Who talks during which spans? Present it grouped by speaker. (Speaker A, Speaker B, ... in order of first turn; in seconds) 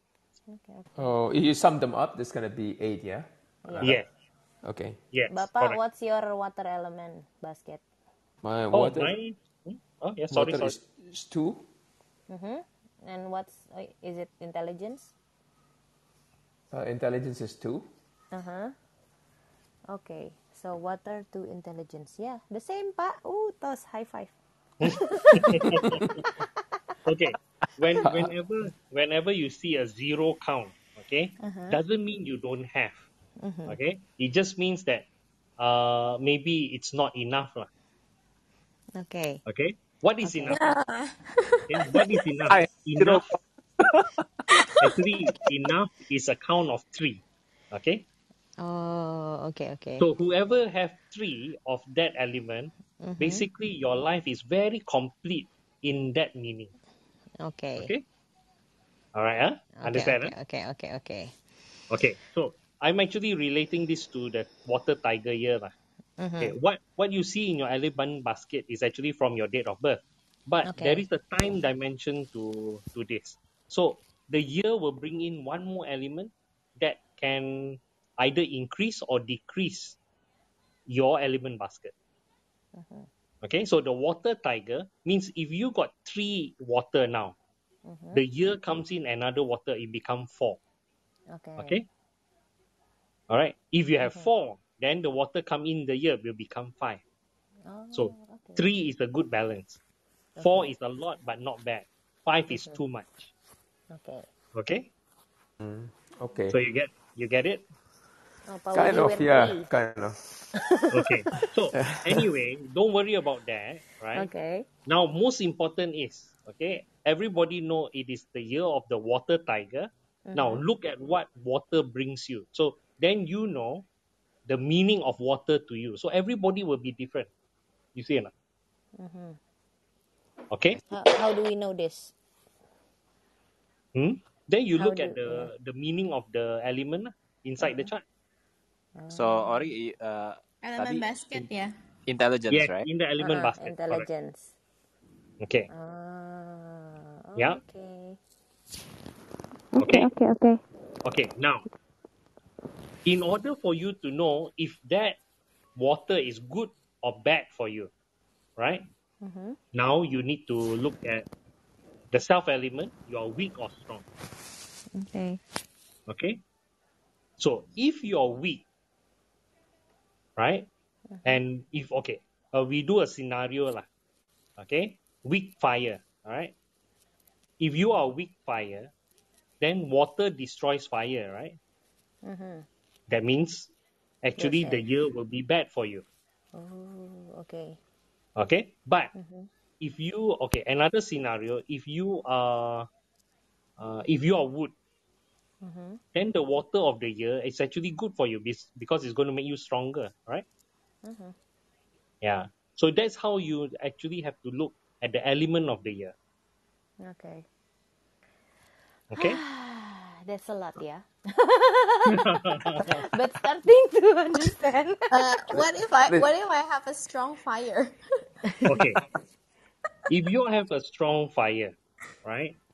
Speaker A: 0.5-1.1, 3.6-4.0, 5.3-7.8, 12.3-15.1, 18.3-18.7, 19.9-25.7, 31.4-31.8, 33.4-33.8, 39.0-39.4, 40.2-40.6, 48.6-50.1, 53.0-53.5, 57.4-57.9, 59.8-61.3, 66.2-66.6, 70.6-71.1, 82.8-83.1, 87.9-88.2, 91.3-91.8, 94.0-94.3, 97.7-98.7, 100.4-100.7, 102.5-102.8, 103.9-104.3, 108.5-109.7, 110.6-111.1, 114.2-114.7, 120.3-120.6, 129.0-129.4, 130.9-132.1, 134.8-135.5, 137.6-137.9, 139.0-139.7, 143.2-144.5, 145.7-148.2, 149.7-150.6, 159.2-159.6, 164.9-165.4, 171.1-171.4, 182.2-182.7, 184.4-184.8, 186.5-187.8, 189.1-189.5, 195.6-196.0, 201.0-201.3, 207.0-207.5, 209.2-212.2, 212.8-215.1
Speaker B: 1.0-4.0, 4.6-5.0, 8.4-9.1, 10.3-11.7, 16.7-17.9, 28.0-28.3, 105.6-106.6, 108.7-110.2
Speaker C: 3.8-4.1, 5.1-5.8, 8.7-10.8, 24.8-26.1, 27.1-33.1, 33.7-35.1, 35.6-37.7, 39.5-40.6, 41.7-43.3, 44.8-48.0, 50.0-56.7, 57.8-58.0, 59.1-60.3, 61.9-65.7, 66.4-80.0, 80.9-81.9, 83.4-87.4, 88.1-90.6, 91.6-91.8, 93.3-97.0, 97.9-99.8, 100.4-103.3, 104.5-104.9, 106.5-107.6, 110.9-114.3, 114.9-123.9, 124.5-127.3, 128.0-128.3, 130.5-130.8, 133.9-138.0, 142.5-144.1, 145.4-145.7, 149.8-150.1, 151.1-151.7, 153.1-155.2, 155.8-157.9, 158.6-158.8, 159.7-161.3, 162.1-164.1, 166.1-166.4, 167.4-168.7, 170.4-170.7, 171.2-173.9, 174.6-176.5, 177.6-178.9, 179.6-181.6, 183.1-183.7, 184.2-186.1, 188.4-189.1, 189.8-192.9, 193.8-194.7, 196.2-200.4, 202.2-206.1, 209.1-209.4, 212.1-213.0, 218.7-219.0, 220.1-222.6
Speaker D: 40.5-42.1, 140.6-141.7, 215.1-218.0
Speaker E: 42.5-44.1, 139.1-141.5, 142.1-142.9